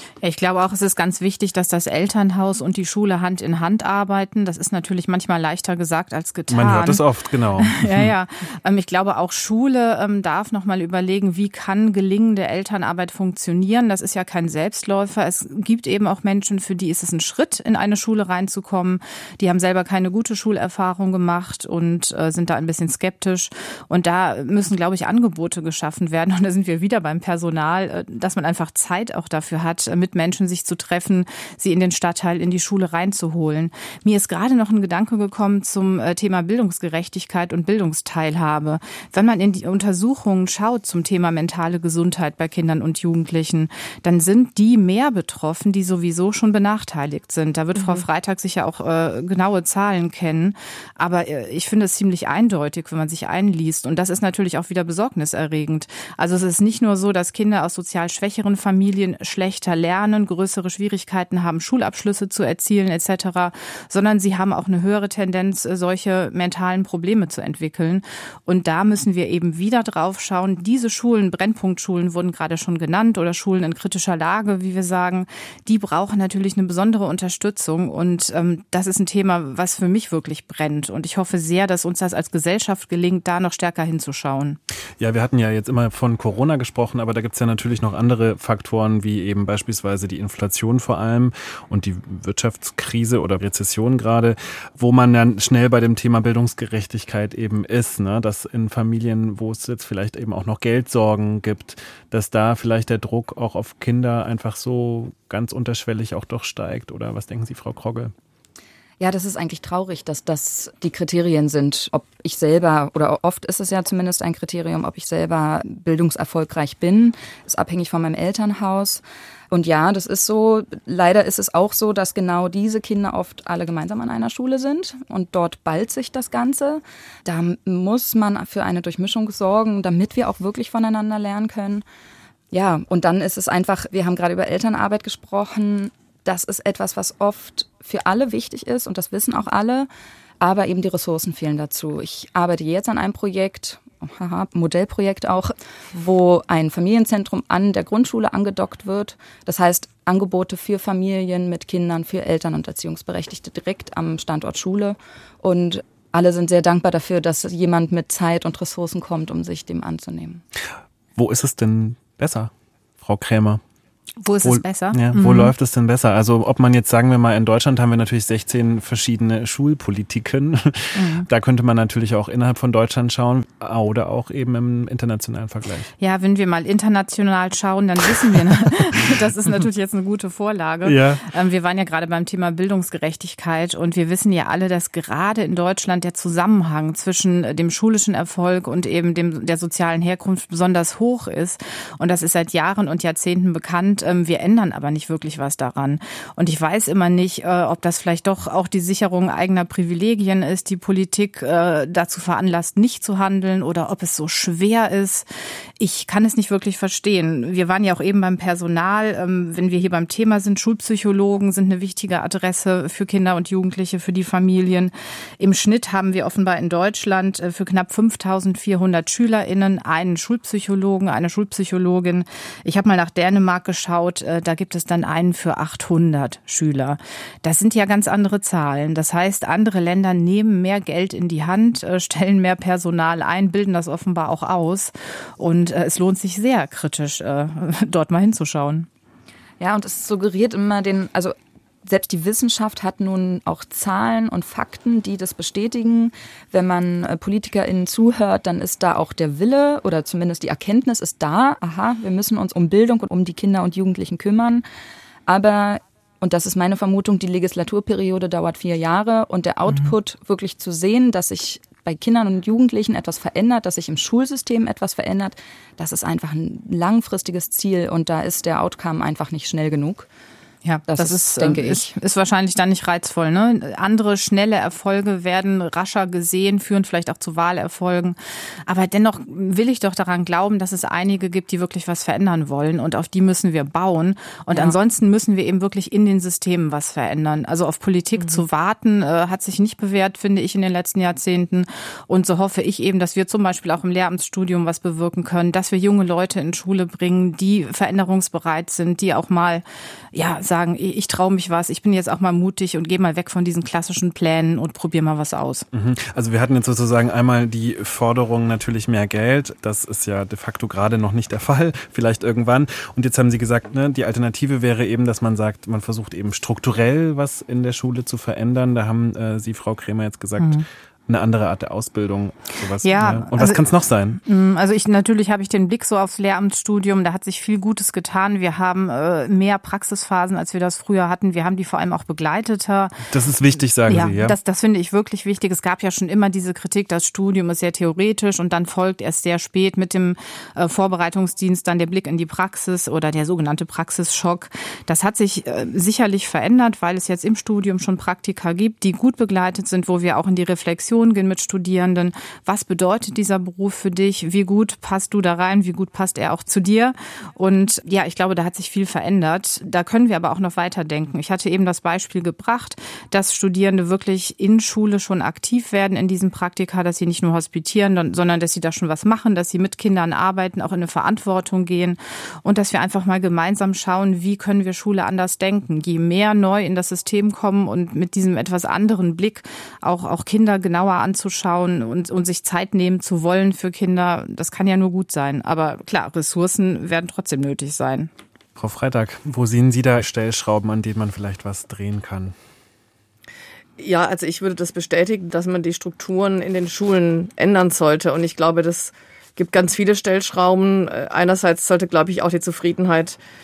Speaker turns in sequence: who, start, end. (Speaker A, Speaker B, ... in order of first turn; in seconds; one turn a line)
Speaker A: 0.2-7.0
Speaker B: 6.5-8.1
Speaker A: 7.6-84.6
Speaker B: 85.0-108.1
Speaker C: 109.0-131.8
Speaker C: 132.5-139.9
Speaker C: 140.4-160.4
Speaker B: 161.2-162.5
Speaker B: 163.0-163.6
Speaker A: 164.2-165.5
Speaker B: 164.4-175.9
Speaker A: 170.9-171.3
Speaker A: 176.0-205.3
Speaker B: 180.8-181.3
Speaker A: 205.8-238.9
Speaker C: 239.6-254.6
Speaker C: 255.3-270.1
Speaker A: 270.6-278.2
Speaker C: 270.9-272.0
Speaker A: 278.7-305.7
Speaker C: 284.5-284.8
Speaker B: 305.7-324.2
Speaker A: 320.4-320.7
Speaker A: 322.8-323.6
Speaker A: 324.2-333.0
Speaker B: 333.1-334.4
Speaker A: 333.9-388.1
Speaker B: 388.6-392.4
Speaker D: 393.8-403.2